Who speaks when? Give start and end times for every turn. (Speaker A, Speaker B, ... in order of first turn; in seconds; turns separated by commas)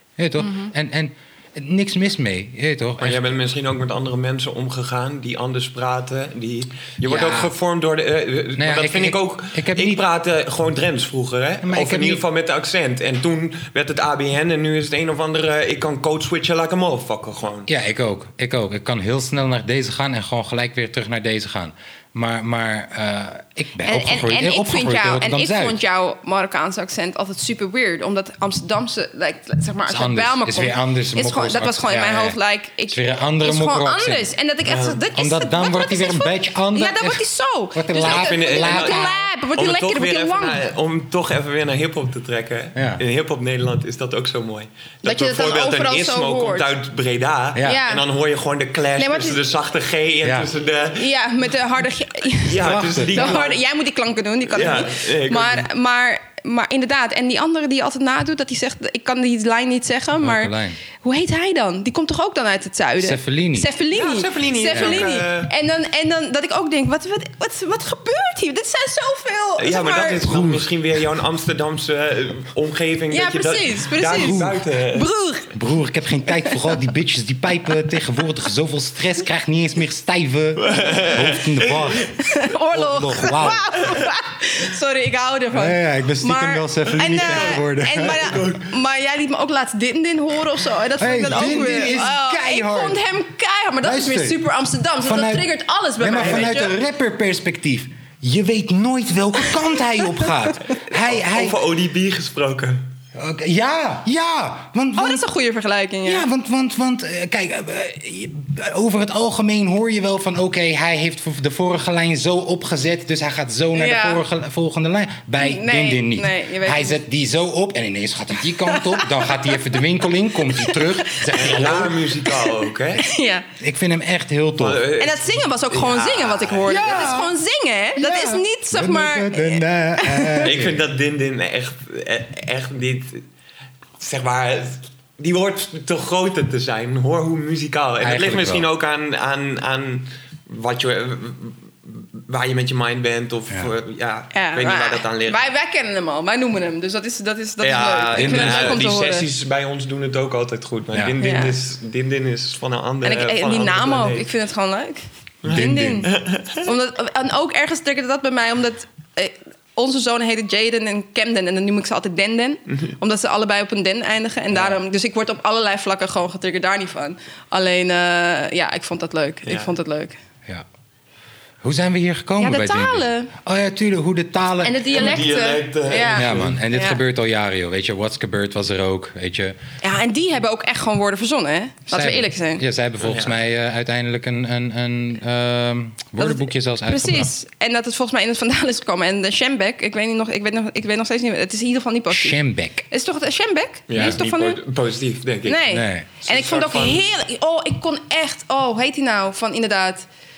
Speaker A: 0.2-3.3, Speaker B: 0.4-0.7, Speaker C: 3.0-17.7, Speaker A: 7.0-7.5, Speaker A: 8.6-10.0, Speaker A: 11.6-12.2, Speaker A: 17.7-25.8, Speaker B: 23.8-40.6, Speaker A: 29.9-32.4, Speaker A: 32.9-34.3, Speaker C: 34.7-35.0, Speaker A: 35.1-37.2, Speaker A: 37.7-39.2, Speaker C: 38.0-51.1, Speaker A: 42.8-43.0, Speaker B: 45.0-46.7, Speaker A: 47.5-47.8, Speaker B: 47.6-48.0, Speaker B: 49.0-49.4, Speaker A: 50.2-50.5, Speaker B: 51.0-70.3, Speaker C: 52.4-53.6, Speaker A: 52.6-53.4, Speaker C: 54.5-55.7, Speaker A: 60.2-60.8, Speaker A: 63.0-63.7, Speaker C: 63.9-65.5, Speaker A: 64.7-65.1, Speaker C: 69.6-75.1, Speaker A: 70.2-70.7, Speaker B: 73.1-75.5, Speaker A: 74.2-74.6, Speaker A: 75.5-82.1, Speaker C: 80.6-82.1, Speaker B: 82.2-96.8, Speaker A: 82.7-83.8, Speaker A: 85.5-88.4, Speaker C: 87.0-88.7, Speaker A: 91.0-93.0, Speaker A: 93.8-94.4, Speaker A: 95.0-95.5, Speaker A: 96.0-101.6, Speaker C: 96.2-96.5, Speaker C: 100.7-102.8, Speaker A: 103.2-105.3, Speaker B: 105.0-106.3, Speaker A: 106.0-122.0, Speaker B: 113.8-114.2, Speaker B: 115.4-117.0, Speaker B: 118.6-119.8, Speaker B: 120.5-123.5, Speaker C: 121.3-123.0, Speaker A: 123.6-124.8, Speaker C: 124.6-127.1, Speaker B: 125.0-130.5, Speaker A: 126.7-127.3, Speaker A: 128.0-130.8, Speaker C: 130.4-133.2, Speaker C: 134.0-145.5, Speaker A: 138.0-138.7, Speaker B: 144.3-149.3, Speaker C: 147.6-154.3, Speaker A: 148.2-148.9, Speaker B: 151.2-151.6, Speaker B: 153.0-170.2, Speaker C: 155.4-156.7, Speaker A: 155.4-156.1, Speaker C: 169.5-169.7, Speaker A: 171.6-175.2, Speaker B: 172.4-173.3, Speaker B: 174.6-177.0, Speaker C: 174.9-176.6, Speaker A: 176.2-179.6, Speaker B: 179.8-182.6, Speaker A: 181.9-187.3, Speaker C: 183.0-183.3, Speaker B: 186.2-192.4, Speaker A: 192.1-192.8, Speaker B: 192.9-194.6, Speaker C: 193.9-195.7, Speaker A: 193.9-194.2, Speaker B: 195.4-200.1, Speaker A: 195.7-196.1, Speaker C: 196.2-197.1